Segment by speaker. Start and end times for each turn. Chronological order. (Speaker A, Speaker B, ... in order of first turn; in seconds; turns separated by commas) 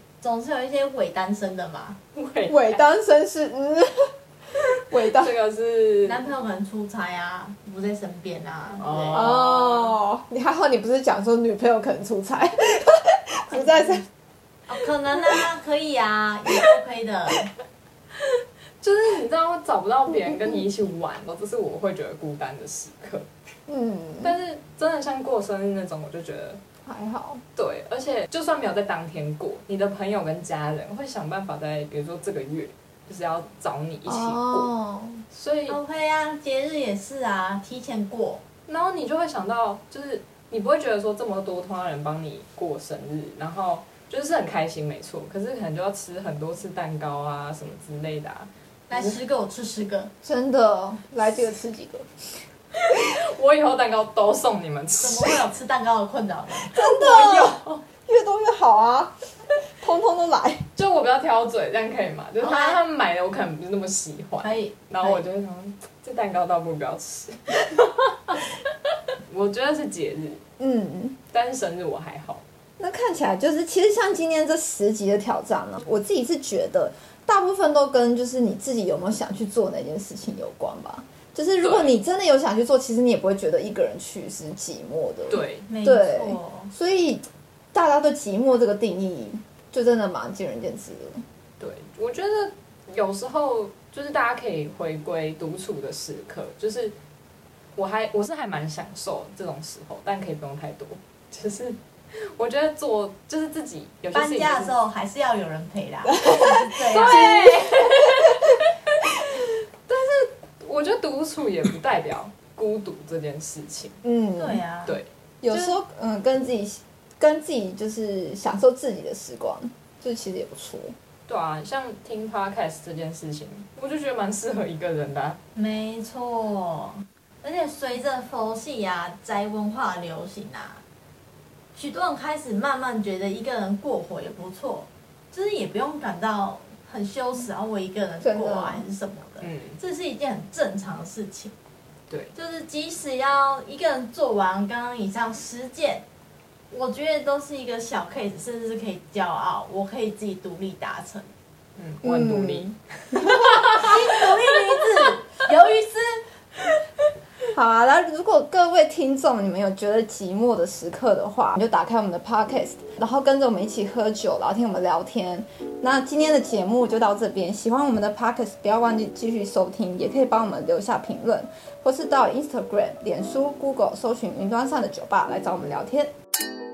Speaker A: 0.2-2.0, Speaker B: 2.1-2.8, Speaker C: 2.5-4.1, Speaker C: 4.9-5.3, Speaker B: 5.0-6.2, Speaker A: 6.0-9.3, Speaker B: 8.8-9.8, Speaker C: 9.1-14.0, Speaker A: 14.7-17.5, Speaker B: 18.2-23.3, Speaker C: 20.1-20.7, Speaker C: 23.7-24.3, Speaker B: 24.2-26.6, Speaker C: 26.9-27.4, Speaker B: 27.6-34.7, Speaker C: 34.1-35.2, Speaker B: 35.3-35.8, Speaker A: 35.7-38.4, Speaker B: 38.7-49.1, Speaker A: 48.9-50.1, Speaker C: 50.2-52.4, Speaker B: 52.8-55.4, Speaker A: 55.0-56.8, Speaker C: 56.7-60.7, Speaker B: 56.8-57.8, Speaker B: 60.8-68.5, Speaker A: 62.4-62.8, Speaker A: 64.4-65.2, Speaker B: 69.3-70.4, Speaker C: 70.6-71.2, Speaker B: 71.3-72.4, Speaker C: 72.8-91.2, Speaker B: 81.6-81.9, Speaker B: 85.3-85.7, Speaker A: 85.7-86.7, Speaker B: 91.6-97.0, Speaker B: 97.8-104.8, Speaker A: 104.1-107.4, Speaker C: 106.2-108.3, Speaker B: 106.8-108.7, Speaker B: 109.9-114.0, Speaker C: 114.0-114.6, Speaker A: 114.4-115.0, Speaker B: 114.8-115.8, Speaker C: 115.4-121.0, Speaker B: 121.3-125.4, Speaker A: 125.5-130.8, Speaker A: 131.8-141.5, Speaker C: 138.2-138.8, Speaker B: 139.4-139.8, Speaker A: 142.3-146.0, Speaker A: 146.7-151.3, Speaker B: 151.8-154.2, Speaker C: 152.0-153.7, Speaker A: 153.6-156.2, Speaker C: 157.5-176.1